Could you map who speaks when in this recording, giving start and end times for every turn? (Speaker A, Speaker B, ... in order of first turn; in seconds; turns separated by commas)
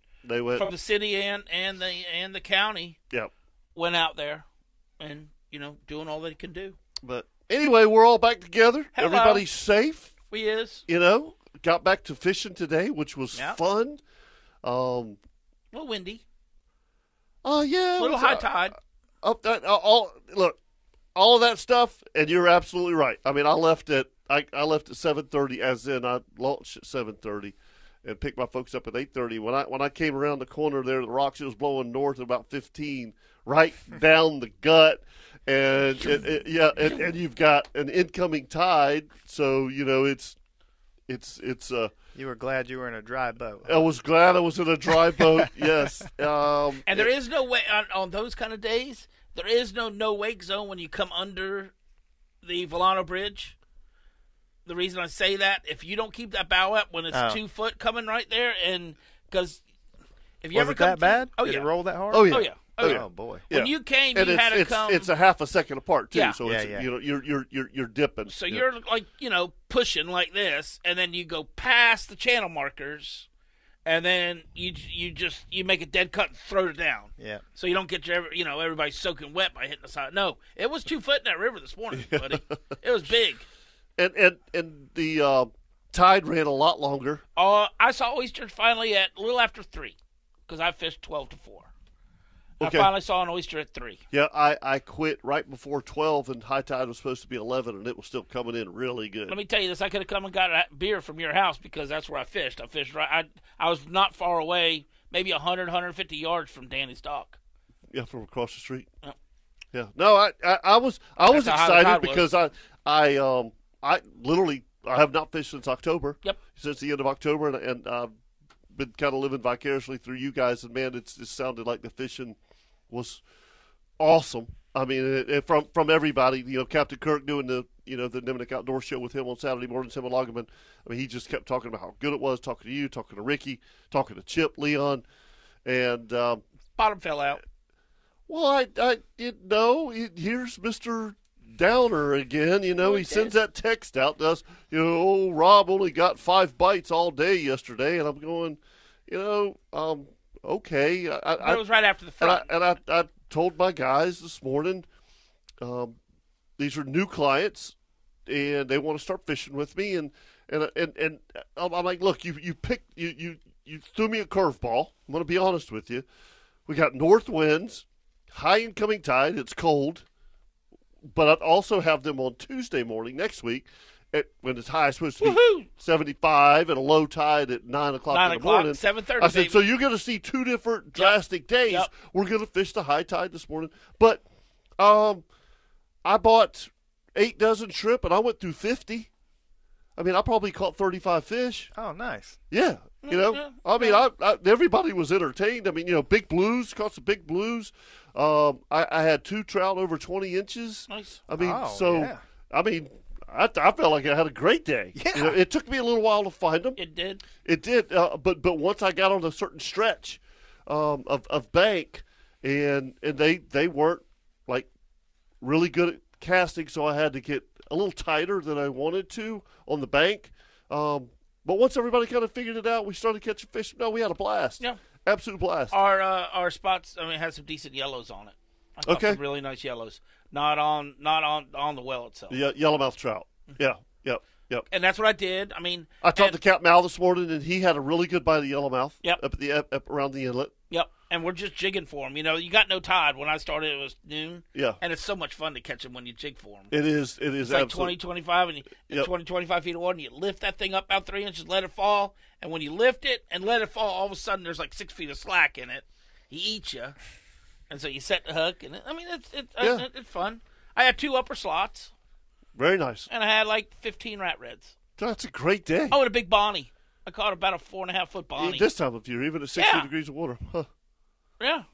Speaker A: 0.2-0.7, Speaker B: 0.5-3.0, Speaker B: 3.8-4.4, Speaker B: 5.0-6.8, Speaker A: 7.0-10.1, Speaker B: 8.9-9.4, Speaker B: 10.3-10.8, Speaker A: 10.9-14.0, Speaker A: 14.6-15.2, Speaker B: 15.7-16.2, Speaker A: 17.4-20.6, Speaker B: 18.0-18.7, Speaker A: 21.1-40.4, Speaker A: 41.1-41.9, Speaker C: 42.1-43.9, Speaker A: 43.6-47.1, Speaker B: 46.9-51.7, Speaker B: 52.4-53.5, Speaker B: 54.6-59.6, Speaker C: 57.1-57.4, Speaker B: 60.4-61.7, Speaker C: 60.5-63.5, Speaker A: 62.1-68.6, Speaker B: 62.3-65.1, Speaker B: 66.1-66.4, Speaker C: 66.4-66.9, Speaker B: 68.3-73.3, Speaker B: 73.8-83.4, Speaker C: 77.2-77.4, Speaker A: 82.0-82.4, Speaker A: 84.0-87.2, Speaker B: 87.4-90.0, Speaker B: 90.5-91.7, Speaker B: 92.6-94.0, Speaker A: 92.6-92.9, Speaker A: 94.1-99.4, Speaker B: 99.3-107.4, Speaker A: 107.9-108.9, Speaker A: 109.7-118.1, Speaker B: 111.2-112.2, Speaker A: 118.7-122.4, Speaker A: 122.9-123.2, Speaker A: 124.0-135.0, Speaker A: 135.6-136.4, Speaker B: 136.8-137.4, Speaker A: 138.3-151.6, Speaker B: 142.8-143.3, Speaker B: 151.4-152.5, Speaker A: 152.2-154.9, Speaker A: 155.6-156.0, Speaker A: 156.6-157.7, Speaker A: 158.2-166.1, Speaker A: 166.7-170.1, Speaker A: 171.0-184.2, Speaker B: 175.2-175.7, Speaker B: 178.1-179.6, Speaker B: 180.9-181.9, Speaker A: 184.8-185.2, Speaker A: 186.0-189.1, Speaker A: 189.9-191.7, Speaker C: 191.7-192.4, Speaker A: 192.5-206.8, Speaker B: 193.0-194.0, Speaker B: 200.9-201.2, Speaker C: 201.3-202.2, Speaker C: 204.9-205.4, Speaker B: 206.8-207.2, Speaker A: 207.4-214.7, Speaker A: 215.4-225.8, Speaker B: 225.7-232.4, Speaker A: 228.8-229.2, Speaker A: 232.3-234.7, Speaker B: 234.7-236.4, Speaker A: 236.0-240.5, Speaker B: 240.7-246.7, Speaker A: 244.5-244.8, Speaker A: 246.7-247.9, Speaker B: 247.4-256.9, Speaker B: 257.7-261.9, Speaker A: 259.6-259.9, Speaker A: 262.6-263.1, Speaker B: 263.1-264.7, Speaker A: 265.0-266.0, Speaker B: 265.9-268.7, Speaker A: 268.4-270.7, Speaker B: 269.6-269.9, Speaker B: 271.4-271.6